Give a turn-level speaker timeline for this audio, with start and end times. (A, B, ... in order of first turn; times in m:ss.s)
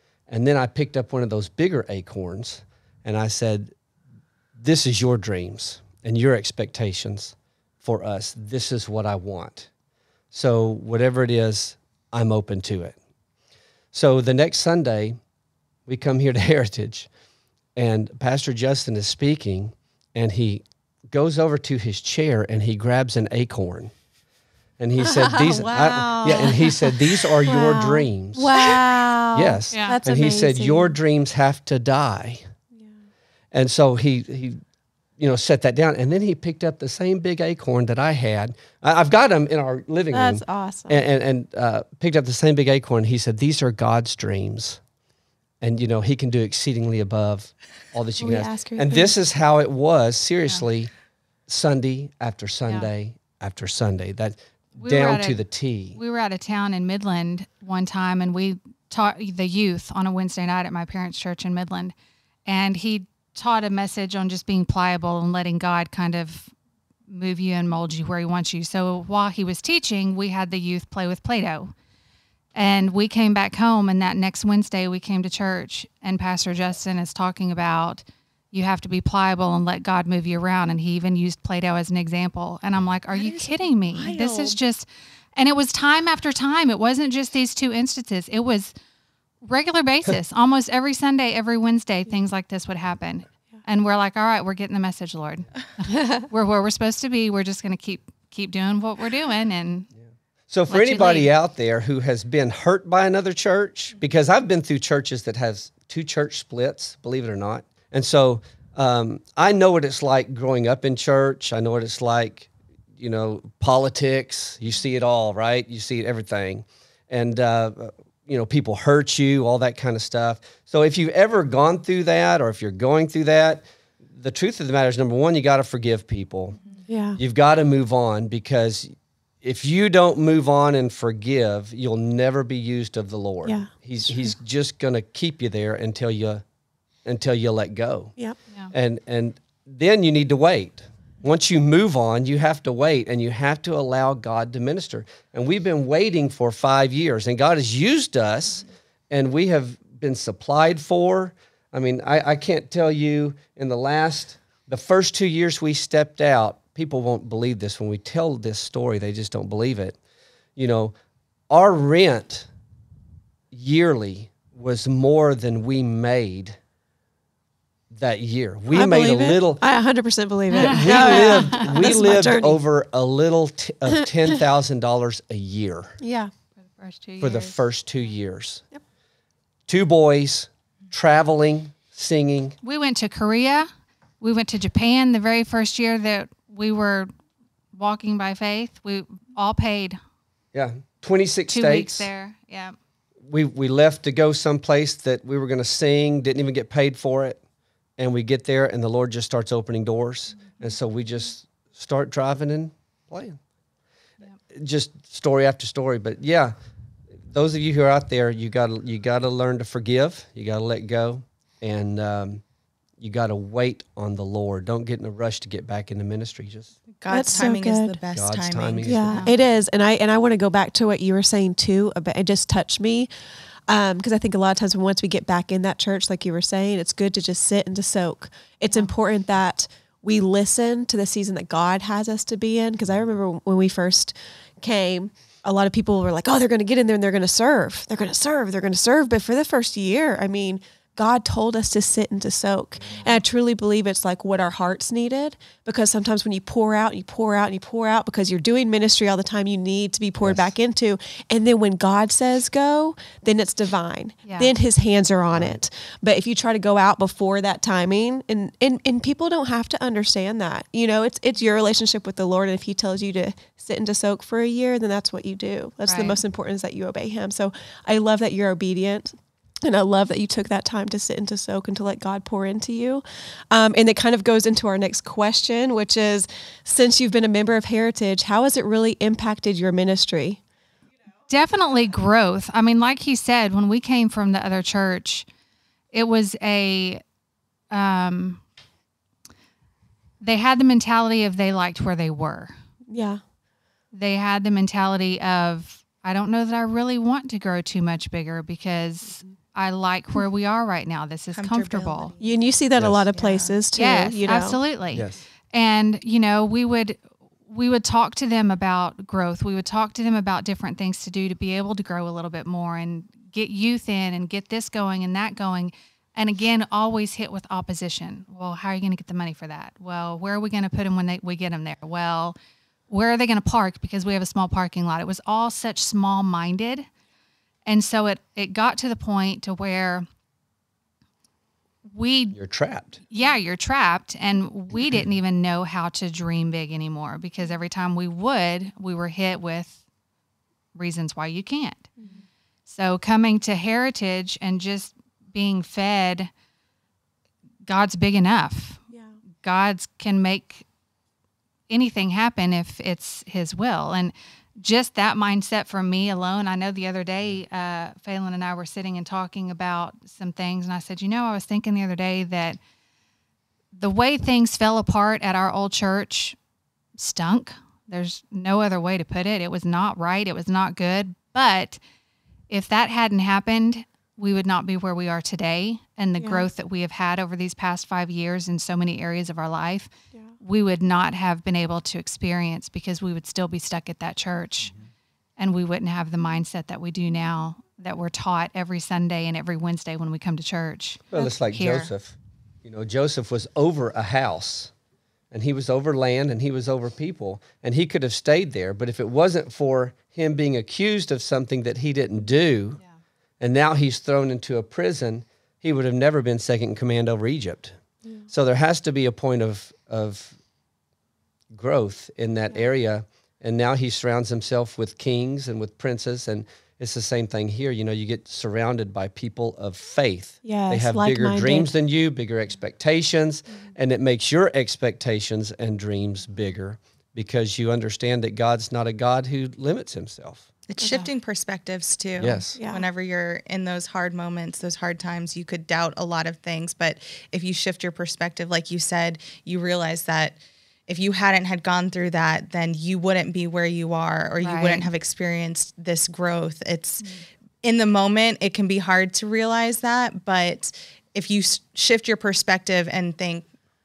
0:00.3-0:03.7 A
0:04.6-0:09.7 A
0:10.3-0:13.0 A
0:13.9-0:15.2 A
0:15.9-0:17.1 A
0:17.8-0:23.9 A
0:24.8-0:28.8 A
0:25.1-0:30.9 B
0:29.3-0:32.4 A
0:29.7-0:30.0 C
0:33.5-0:34.6 A
0:35.2-0:44.8 A
0:40.1-0:41.0 B
0:45.6-0:50.9 A
0:48.2-0:49.1 B
0:51.5-0:56.0 A
0:54.8-0:55.4 C
0:55.9-1:01.9 C
1:02.4-1:06.5 C
1:07.1-1:11.7 C
1:12.5-1:28.7 C
1:23.1-1:24.6 B
1:29.4-1:39.9 C
1:40.5-2:06.6 A
1:40.7-1:41.3 C
2:06.9-2:07.2 B
2:07.2-2:16.4 A
2:13.4-2:13.7 B
2:17.0-2:18.1 A
2:18.7-2:40.0 A
2:40.6-2:40.9 A
2:41.5-2:42.5 A
2:43.5-2:46.6 A
2:47.9-2:49.6 A
2:48.7-2:52.6 B
2:50.5-2:51.9 C
2:50.5-2:56.0 A
2:54.0-2:54.3 B
2:56.0-2:56.3 B
2:56.8-2:57.5 C
2:57.2-2:58.6 A
2:59.7-3:02.6 A
3:02.6-3:03.7 C
3:04.2-3:07.1 C
3:07.7-3:10.0 C
3:10.5-3:12.1 A
3:11.5-3:12.8 C
3:13.2-3:17.4 A
3:18.0-3:23.4 A
3:24.5-3:26.5 A
3:27.3-3:32.4 A
3:33.0-3:36.8 A
3:37.0-3:39.1 D
3:37.1-3:38.0 B
3:38.1-3:39.2 A
3:38.8-3:43.1 B
3:39.1-3:39.3 C
3:43.7-4:40.4 B
4:10.2-4:10.5 A
4:14.2-4:14.5 C
4:25.8-4:26.2 C
4:41.3-4:45.3 C
4:45.9-4:47.0 C
4:47.7-4:48.4 C
4:50.2-4:52.5 C
4:52.9-4:53.2 B
4:53.9-5:02.1 C
5:01.3-5:02.4 D
5:02.2-5:04.6 B
5:02.8-5:03.0 A
5:03.1-5:03.6 D
5:03.7-5:22.4 C
5:04.9-5:05.2 A
5:22.9-5:26.9 C
5:27.6-5:30.0 C
5:31.9-5:32.4 C
5:32.3-5:32.9 A
5:33.1-5:39.8 C
5:40.7-5:42.1 C
5:42.7-5:46.3 C
5:47.6-5:48.8 C
5:49.4-5:50.6 C
5:51.7-6:02.6 C
6:03.7-6:06.4 C
6:07.0-6:11.8 C
6:12.5-6:24.7 C
6:16.2-6:16.4 B
6:25.4-6:31.9 C
6:31.1-6:34.7 A
6:35.3-6:42.8 A
6:43.4-6:47.8 A
6:48.3-6:50.3 A
6:51.5-7:10.5 A
7:00.4-7:01.7 B
7:10.7-7:27.1 D
7:12.2-7:12.6 A
7:12.6-7:12.8 B
7:24.4-7:24.9 C
7:27.6-7:33.5 D